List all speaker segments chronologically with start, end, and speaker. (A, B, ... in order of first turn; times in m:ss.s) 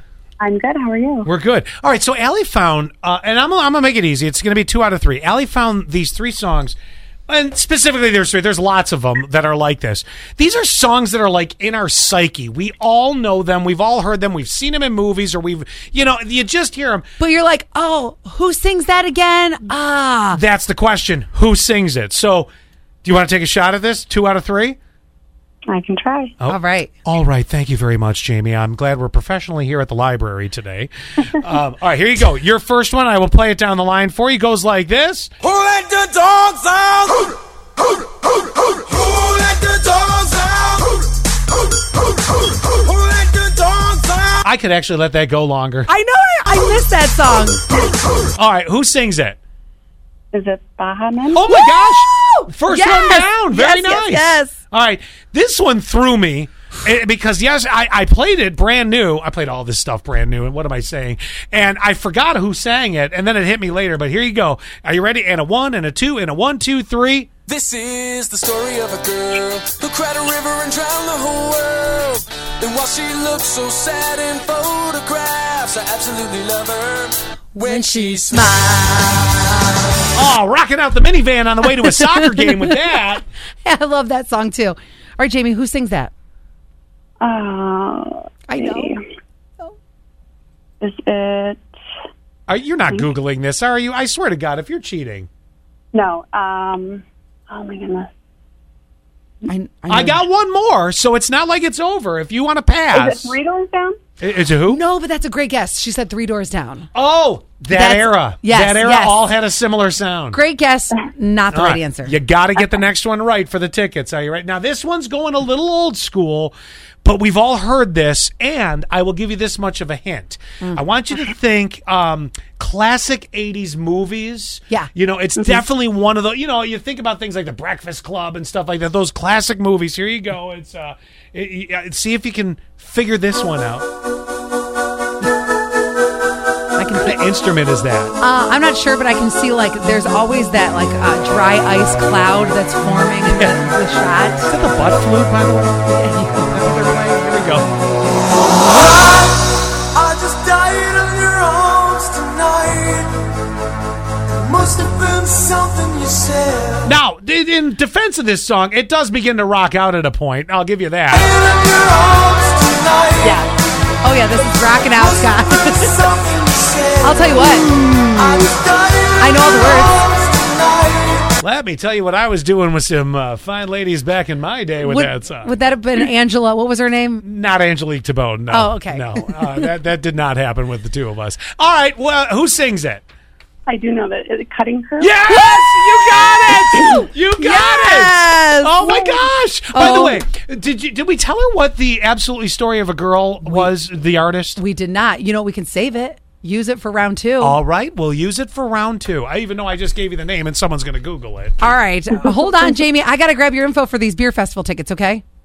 0:00.4-0:01.3 A
0:01.2-0:06.8 B
0:07.3-0:17.0 B
0:17.2-0:20.4 C
0:20.3-0:22.5 B
0:23.0-0:24.8 B
0:25.7-0:26.4 A
0:26.4-0:35.3 B
0:26.5-0:26.9 C
0:35.4-0:37.4 D
0:38.8-0:41.0 D
0:42.8-0:44.4 D
0:44.4-0:45.9 B
0:45.9-0:47.6 C
0:48.4-0:49.4 B
0:50.3-0:51.4 A
0:51.3-1:07.3 B
0:51.4-0:54.6 C
1:07.4-1:18.5 D
1:17.5-1:19.8 C
1:20.1-1:23.2 B
1:21.6-1:22.9 C
1:23.6-1:26.1 C
1:27.2-1:29.0 A
1:28.5-1:29.0 C
1:30.8-1:31.6 A
1:32.5-1:35.3 B
1:35.9-1:38.1 A
1:39.4-1:40.2 C
1:39.9-1:43.3 B
1:42.9-1:44.0 A
1:44.2-1:44.8 B
1:44.7-1:46.9 C
1:46.9-1:50.4 B
1:47.7-1:49.2 C
1:50.3-1:52.1 C
1:51.5-1:56.5 B
1:57.0-2:13.8 B
2:16.8-2:18.1 B
2:16.8-2:17.2 C
2:18.2-2:24.5 C
2:23.3-2:23.6 B
2:24.4-2:27.7 B
2:25.9-2:26.8 C
2:28.9-2:33.3 D
2:34.3-2:36.8 D
2:36.8-2:41.4 B
2:41.3-2:43.2 D
2:43.2-2:43.5 A
2:44.0-2:46.2 C
2:46.1-2:47.0 D
2:47.0-2:48.6 C
2:48.8-2:49.6 D
2:49.2-2:50.0 C
2:50.2-2:51.3 D
2:51.4-2:55.5 B
2:54.8-2:57.2 C
2:57.2-3:03.0 B
2:58.5-2:59.6 C
3:03.7-3:05.5 A
3:05.0-3:14.6 B
3:06.8-3:10.2 C
3:13.4-3:13.7 C
3:14.6-3:17.6 C
3:17.4-3:21.7 B
3:21.6-3:25.2 C